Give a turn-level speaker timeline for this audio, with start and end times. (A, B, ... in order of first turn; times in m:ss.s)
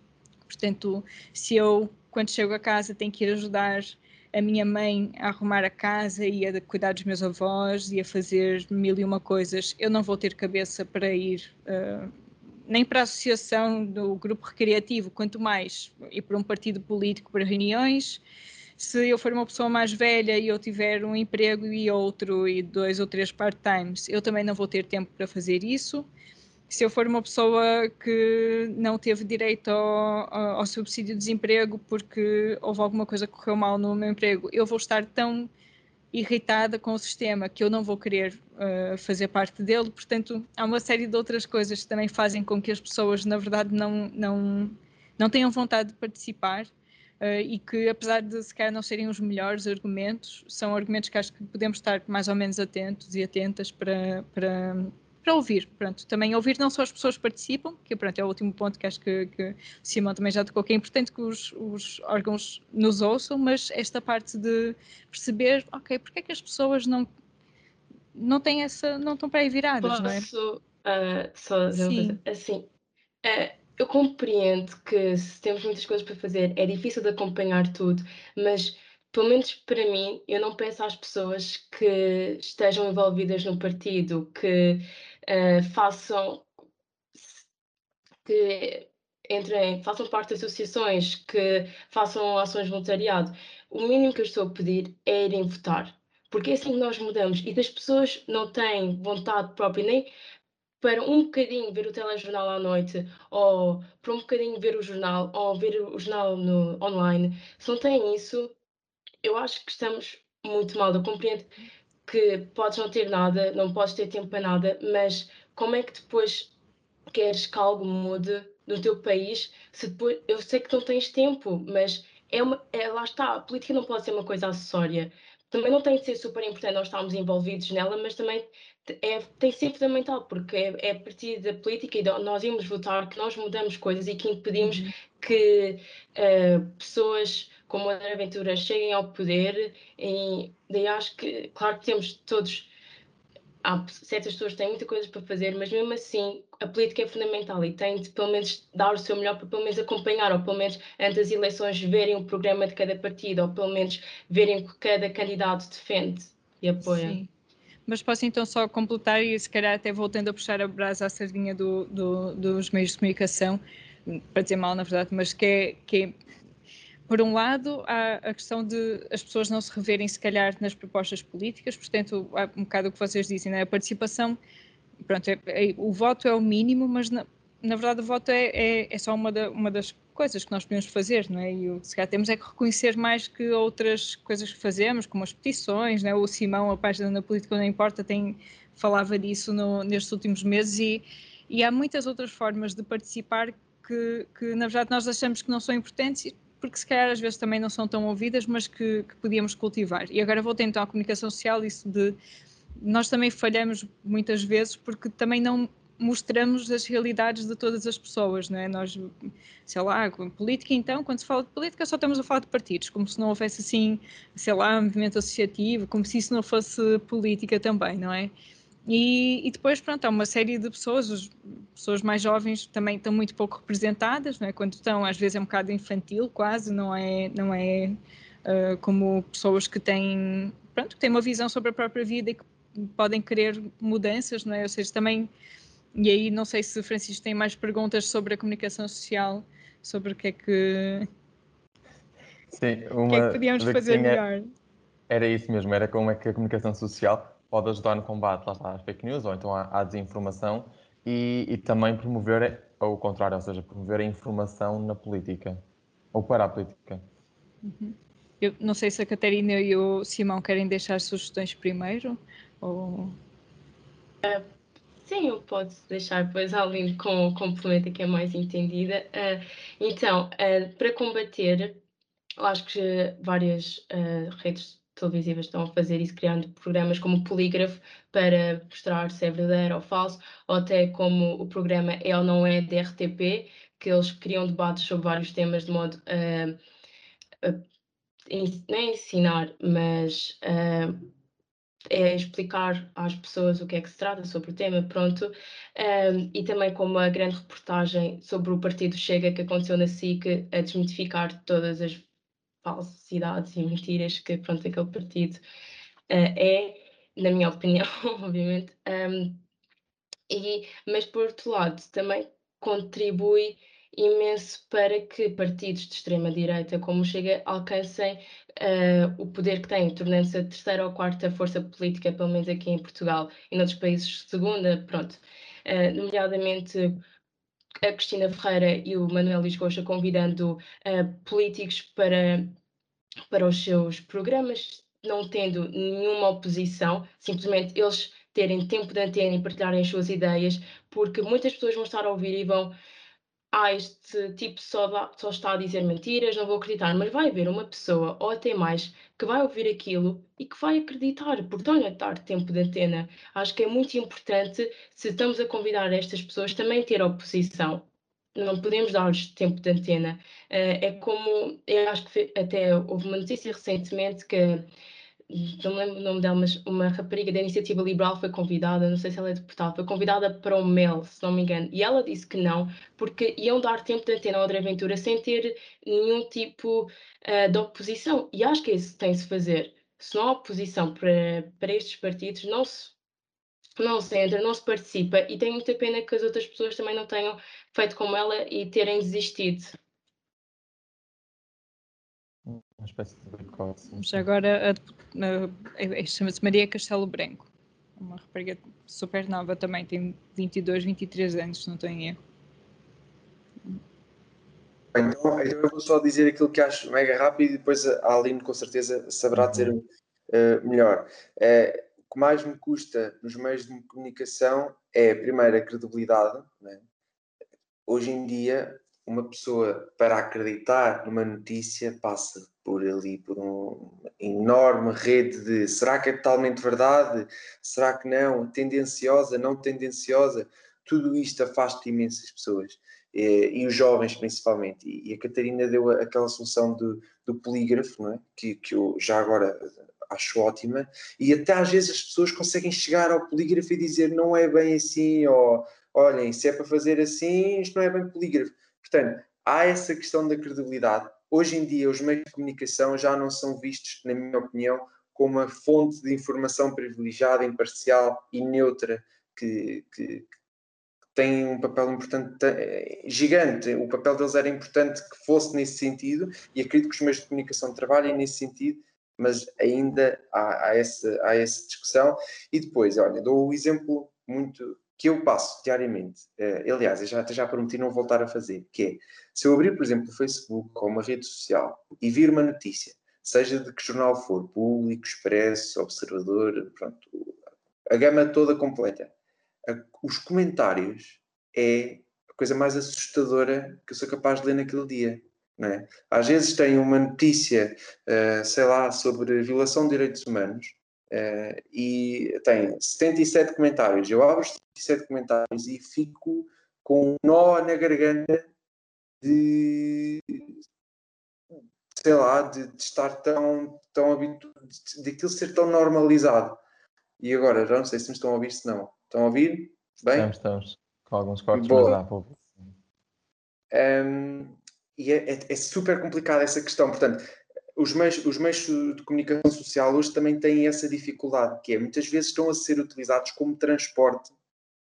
0:00.4-0:12.1 A
0:12.7-0:18.2 A
0:18.8-0:26.1 A
0:26.7-0:35.5 A
0:36.1-1:07.1 A
1:08.1-1:10.2 A
1:09.8-1:12.6 B
1:11.7-1:12.2 A
1:13.2-1:26.5 B
1:27.2-1:27.4 B
1:28.2-1:40.1 B
1:40.8-1:48.5 B
1:49.2-1:51.5 B
1:52.1-1:56.5 B
1:57.1-2:22.7 B
2:14.6-2:14.9 A
2:23.6-2:37.2 B
2:36.8-2:37.3 A
2:37.9-2:46.1 A
2:47.1-2:54.4 A
2:55.0-3:22.2 A
3:22.8-3:38.3 A
3:38.9-3:55.3 A
3:56.0-4:01.1 A
4:02.5-4:04.2 C
4:03.1-4:04.4 A
4:05.1-4:15.6 C
4:16.1-4:17.0 C
4:17.6-4:23.1 A
4:25.0-4:31.8 B
4:32.4-4:46.6 B
4:48.3-4:51.1 B
4:51.9-5:02.1 B
5:02.6-5:05.4 B
5:06.1-5:09.4 B
5:10.3-5:27.0 B
5:27.8-5:32.5 B
5:33.3-5:42.7 B
5:43.5-6:04.7 B
6:05.3-6:23.0 B
6:23.8-6:29.8 B
6:32.4-6:34.2 C
6:33.9-6:42.2 A
6:44.9-6:56.8 D
6:49.4-6:49.7 C
6:57.9-7:40.3 D
7:41.1-8:07.4 D
8:07.9-8:09.1 D
8:09.6-8:28.5 D
8:29.2-8:30.5 D
8:31.9-8:36.6 D
8:37.2-8:40.3 D
8:40.1-8:42.7 C
8:41.5-8:42.0 D
8:43.7-8:54.3 D